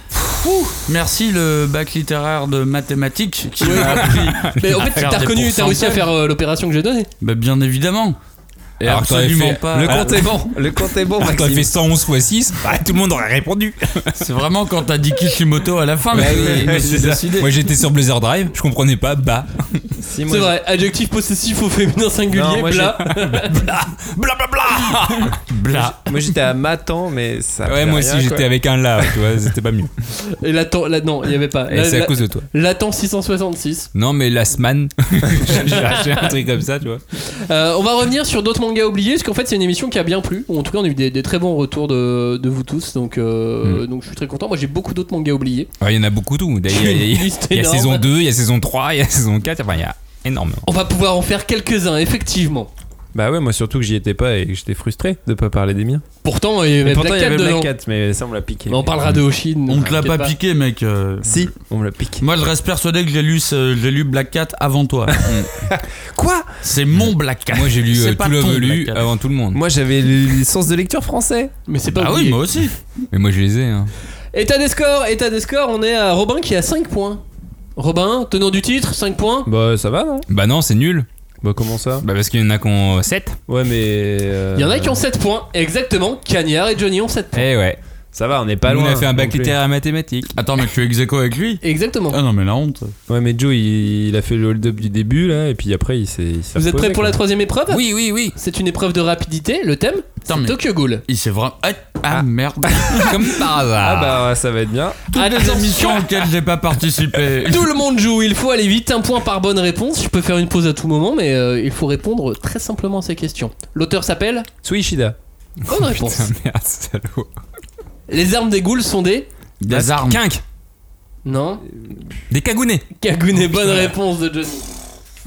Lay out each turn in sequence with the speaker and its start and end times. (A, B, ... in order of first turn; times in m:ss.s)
0:00.3-0:06.0 A
0:03.6-0:07.1 B
0:03.7-0:05.3 C
0:07.2-0:08.2 A
0:08.8-0:10.3 A
0:08.8-0:10.5 C
0:09.7-0:11.7 D
0:11.1-0:14.2 C
0:14.2-0:17.5 A
0:16.1-0:19.5 C
0:16.2-0:17.3 D
0:20.0-0:20.6 D
0:20.3-0:23.6 B
0:22.3-0:23.0 D
0:23.2-0:25.4 C
0:25.2-0:26.0 A
0:25.7-0:28.5 D
0:27.6-0:29.9 C
0:30.3-0:33.9 B
0:31.7-0:32.4 C
0:33.9-0:37.0 C
0:35.5-0:36.3 B
0:37.2-0:45.7 B
0:45.8-0:50.6 C
0:46.7-0:48.0 B
0:50.6-0:52.7 B
0:53.1-0:56.0 D
0:56.2-0:57.7 B
0:56.8-0:59.2 D
0:58.7-1:00.3 B
0:59.7-1:01.5 A
1:01.2-1:02.2 D
1:02.2-1:05.3 A
1:05.7-1:06.5 D
1:06.6-1:09.1 A
1:07.5-1:09.6 C
1:09.5-1:11.5 D
1:11.7-1:12.4 B
1:11.9-1:12.7 A
1:13.1-1:13.9 C
1:14.3-1:17.2 B
1:17.8-1:19.5 B
1:19.4-1:20.2 D
1:20.3-1:21.1 C
1:21.4-1:22.0 D
1:22.0-1:23.4 C
1:23.5-1:25.0 D
1:24.5-1:27.5 B
1:27.3-1:27.8 C
1:28.1-1:29.5 D
1:28.6-1:30.3 C
1:30.4-1:32.9 A
1:31.6-1:32.2 B
1:33.1-1:37.2 D
1:36.6-1:41.0 B
1:37.7-1:38.3 C
1:40.3-1:43.4 A
1:43.0-1:44.2 C
1:43.8-1:45.1 D
1:45.1-1:46.2 B
1:45.1-1:47.7 A
1:47.4-1:54.5 B
1:54.6-1:55.2 D
1:55.7-1:56.3 B
1:55.7-1:57.3 C
1:58.1-1:59.3 B
1:59.6-2:00.2 A
1:59.7-2:00.4 C
2:01.2-2:01.6 B
2:02.3-2:02.8 C
2:03.0-2:04.7 B